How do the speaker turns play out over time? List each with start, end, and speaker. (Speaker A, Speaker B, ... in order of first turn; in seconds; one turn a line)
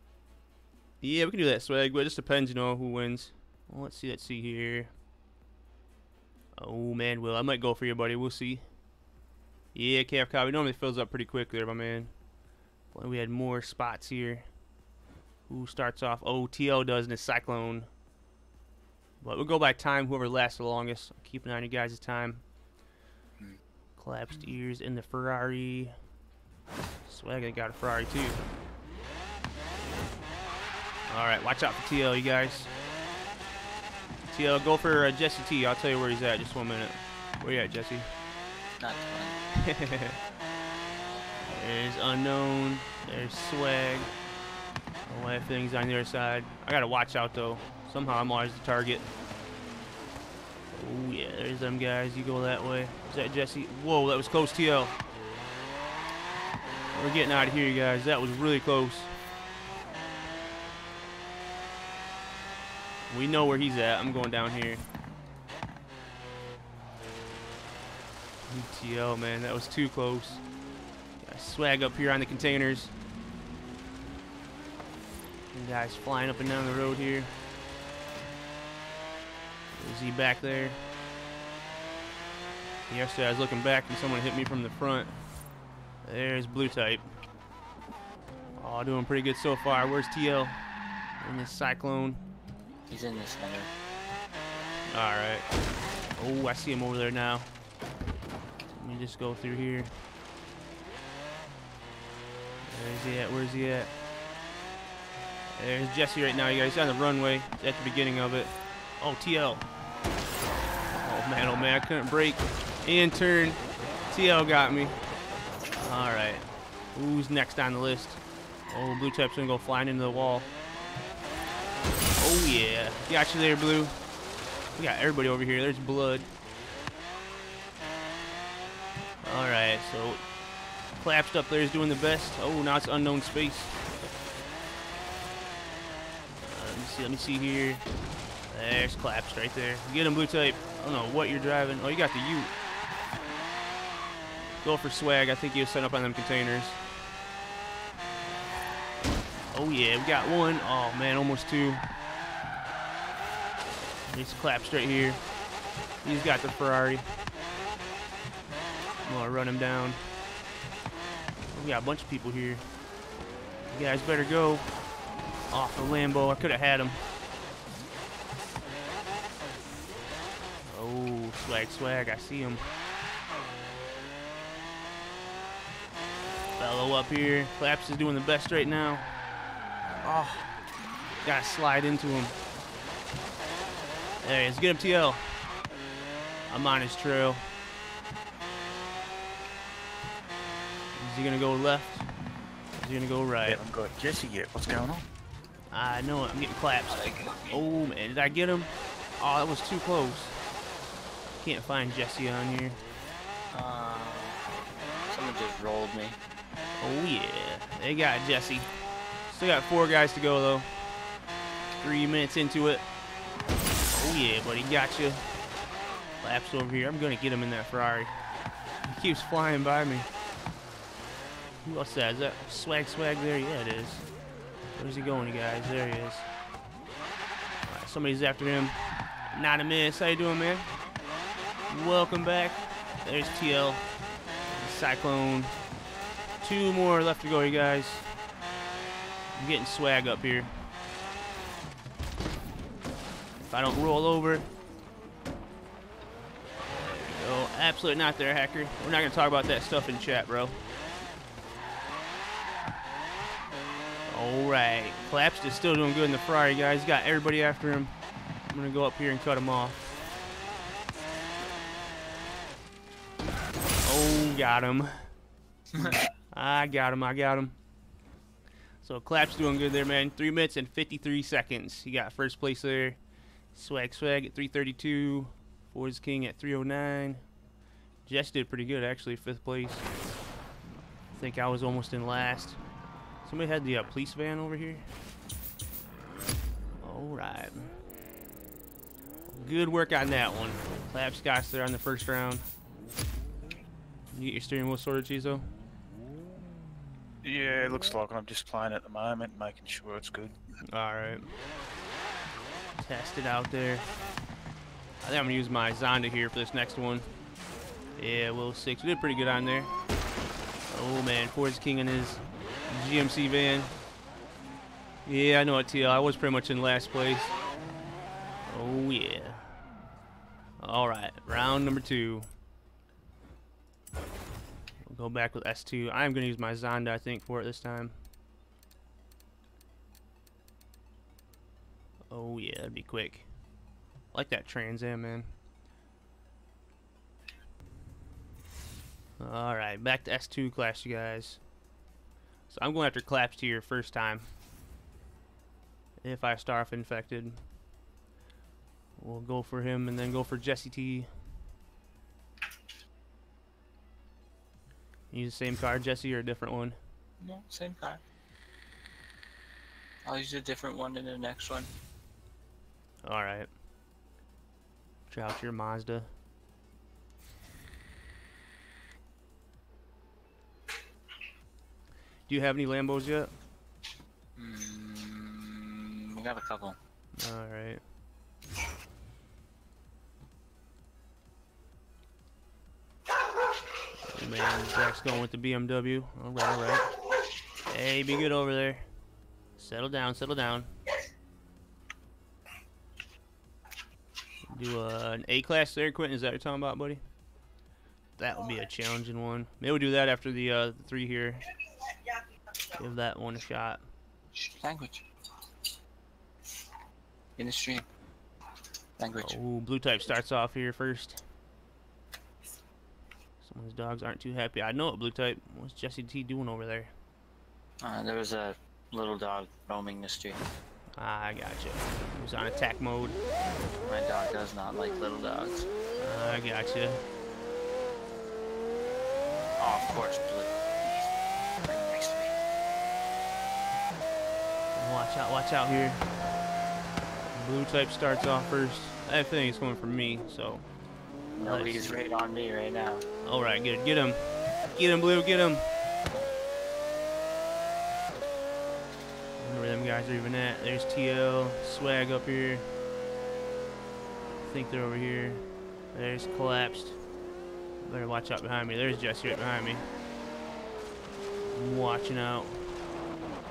Speaker A: 1.0-4.9
Speaker A: 6.6-8.7
Speaker A: 9.7-12.1
Speaker A: 12.9-14.5
Speaker A: 15.5-17.9
Speaker A: 19.2-22.4
Speaker A: 24.0-26.0
Speaker A: 27.1-28.4
Speaker A: 31.1-32.7
Speaker A: 34.3-38.1
Speaker B: 38.8-39.4
Speaker A: 39.5-40.2
Speaker A: 41.5-44.1
Speaker A: 45.0-49.1
Speaker A: 50.7-55.0
Speaker A: 56.9-59.1
Speaker A: 63.1-64.9
Speaker A: 68.5-70.4
Speaker A: 71.2-72.9
Speaker A: 75.5-77.3
Speaker A: 79.8-80.8
Speaker A: 82.9-85.2
Speaker A: 86.0-87.0
Speaker A: 88.6-90.6
Speaker A: 91.2-92.2
Speaker B: 92.9-93.7
Speaker A: 94.9-95.5
Speaker A: 96.2-97.5
Speaker A: 98.7-99.9
Speaker A: 102.7-103.9
Speaker A: 105.5-109.7
Speaker A: 110.9-115.0
Speaker A: 115.8-120.5
Speaker A: 122.2-124.0
Speaker A: 124.8-126.3
Speaker A: 129.2-130.2
Speaker A: 131.0-133.8
Speaker A: 136.4-137.8
Speaker A: 138.5-142.5
Speaker A: 144.6-146.8
Speaker A: 149.5-151.8
Speaker A: 154.1-155.2
Speaker A: 156.0-157.1
Speaker A: 159.0-160.0
Speaker A: 161.5-162.7
Speaker A: 163.7-164.7
Speaker A: 165.5-167.1
Speaker A: 170.7-172.7
Speaker A: 176.6-179.1
Speaker A: 180.0-180.5
Speaker A: 181.2-182.3
Speaker A: 184.2-185.3
Speaker A: 186.5-187.4
Speaker A: 191.0-192.1
Speaker A: 192.8-193.6
Speaker C: 193.4-195.1
Speaker A: 195.7-200.3
Speaker B: 196.9-197.6
Speaker A: 201.3-202.8
Speaker B: 203.5-204.6
Speaker B: 205.1-206.2
Speaker A: 206.8-208.7
Speaker A: 209.2-210.7
Speaker A: 211.8-212.8
Speaker A: 213.9-215.2
Speaker A: 216.2-218.2
Speaker A: 218.8-220.1
Speaker A: 221.6-224.1
Speaker A: 224.7-226.3
Speaker A: 227.7-230.7
Speaker A: 231.7-233.8
Speaker A: 234.5-235.6
Speaker A: 236.4-238.1
Speaker A: 239.3-240.6
Speaker A: 243.4-244.5
Speaker A: 246.8-250.6
Speaker A: 254.1-257.9
Speaker A: 258.5-259.9
Speaker A: 263.8-265.1
Speaker B: 265.7-266.0
Speaker A: 266.3-267.5
Speaker A: 268.8-273.0
Speaker A: 273.5-277.2
Speaker A: 278.1-279.9
Speaker A: 281.1-282.6
Speaker A: 283.2-284.9
Speaker A: 286.8-287.8
Speaker A: 289.3-292.4
Speaker A: 294.1-295.5
Speaker C: 297.2-300.4
Speaker A: 300.7-301.3
Speaker A: 302.8-303.9
Speaker A: 305.0-307.1
Speaker A: 308.0-309.7
Speaker A: 310.7-313.7
Speaker A: 315.0-317.4
Speaker A: 318.5-319.5
Speaker A: 320.6-322.3
Speaker A: 324.8-327.9
Speaker A: 332.1-333.2
Speaker A: 334.1-335.3
Speaker A: 339.2-341.4
Speaker A: 342.5-344.3
Speaker A: 346.0-347.4
Speaker A: 349.0-351.1
Speaker A: 355.1-356.8
Speaker B: 357.2-358.0
Speaker B: 360.0-361.7
Speaker A: 363.0-363.5
Speaker A: 365.1-366.1
Speaker A: 372.3-373.3
Speaker B: 374.4-376.8
Speaker A: 377.1-377.8
Speaker A: 384.1-386.9
Speaker A: 387.6-388.9
Speaker A: 389.6-390.7
Speaker A: 394.5-397.0
Speaker A: 398.2-401.5
Speaker A: 402.8-403.8
Speaker B: 404.3-405.0
Speaker B: 407.4-407.9
Speaker B: 409.0-409.3
Speaker A: 409.2-411.2
Speaker A: 413.4-416.9
Speaker B: 417.8-420.4
Speaker A: 421.0-423.2
Speaker B: 423.8-425.7
Speaker A: 426.0-427.0
Speaker B: 429.6-431.0
Speaker B: 431.6-432.3
Speaker A: 434.7-436.1
Speaker A: 437.3-440.6
Speaker B: 441.4-443.0
Speaker A: 441.4-442.0
Speaker A: 443.2-445.7
Speaker A: 449.4-452.6
Speaker A: 454.4-457.0
Speaker A: 457.8-459.8
Speaker A: 461.5-462.7